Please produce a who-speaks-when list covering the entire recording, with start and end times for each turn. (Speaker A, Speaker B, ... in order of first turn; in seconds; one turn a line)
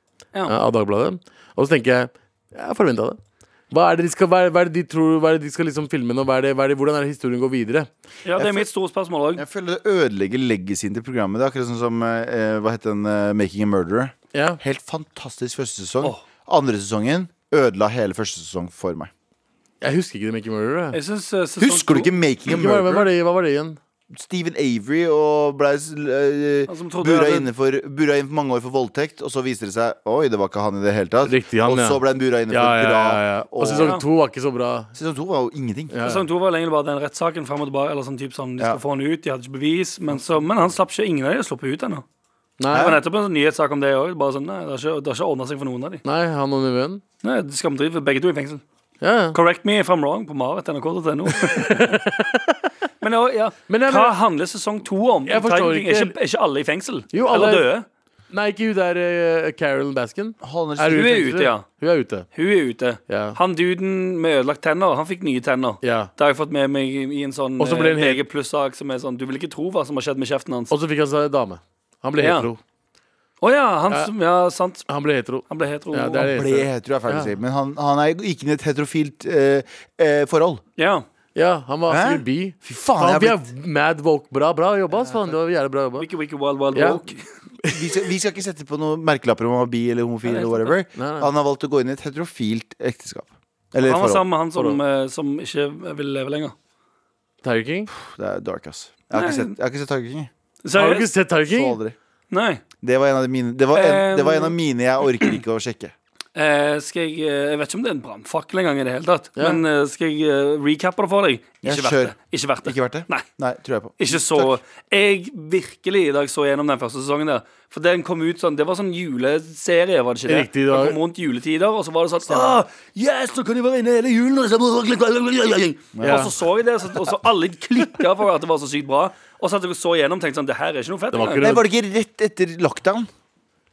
Speaker A: 0.5-3.2
Speaker A: 3.7-7.9
Speaker B: 8.2-9.4
Speaker C: 8.4-8.7
Speaker C: 9.3-19.1
Speaker A: 14.3-14.6
Speaker A: 19.8-21.0
Speaker B: 20.9-22.1
Speaker C: 21.6-23.1
Speaker A: 22.5-23.8
Speaker C: 24.1-34.0
Speaker B: 26.7-27.5
Speaker A: 31.2-34.9
Speaker B: 33.7-34.0
Speaker C: 34.9-35.9
Speaker A: 35.9-36.3
Speaker B: 36.0-42.0
Speaker A: 42.6-43.0
Speaker B: 42.7-46.0
Speaker A: 46.0-47.0
Speaker B: 47.2-48.6
Speaker A: 49.0-49.4
Speaker B: 49.3-51.7
Speaker A: 51.4-52.7
Speaker B: 53.0-57.9
Speaker A: 53.7-54.2
Speaker A: 55.2-56.1
Speaker A: 57.1-57.7
Speaker A: 58.3-62.3
Speaker C: 60.4-61.2
Speaker B: 60.9-61.6
Speaker B: 62.3-70.7
Speaker A: 63.1-63.4
Speaker A: 65.8-66.1
Speaker A: 67.6-68.2
Speaker A: 70.7-72.6
Speaker B: 72.2-72.5
Speaker B: 73.4-74.8
Speaker A: 74.9-77.3
Speaker B: 75.5-76.3
Speaker C: 76.2-80.6
Speaker B: 80.8-81.0
Speaker A: 81.3-86.1
Speaker C: 81.9-83.4
Speaker B: 86.0-87.2
Speaker A: 86.7-87.0
Speaker C: 87.7-94.2
Speaker B: 90.2-90.7
Speaker A: 90.9-91.3
Speaker B: 93.8-96.5
Speaker A: 97.4-97.9
Speaker C: 97.9-100.3
Speaker B: 99.1-99.5
Speaker B: 100.6-101.1
Speaker A: 100.7-101.8
Speaker C: 101.5-102.0
Speaker B: 102.3-102.6
Speaker C: 102.8-105.9
Speaker B: 103.7-104.5
Speaker B: 106.3-113.2
Speaker A: 109.4-109.6
Speaker C: 111.6-114.6
Speaker B: 114.0-131.5
Speaker A: 120.3-121.0
Speaker C: 122.3-122.6
Speaker C: 125.9-126.3
Speaker A: 126.0-126.3
Speaker A: 131.1-131.6
Speaker C: 131.4-133.1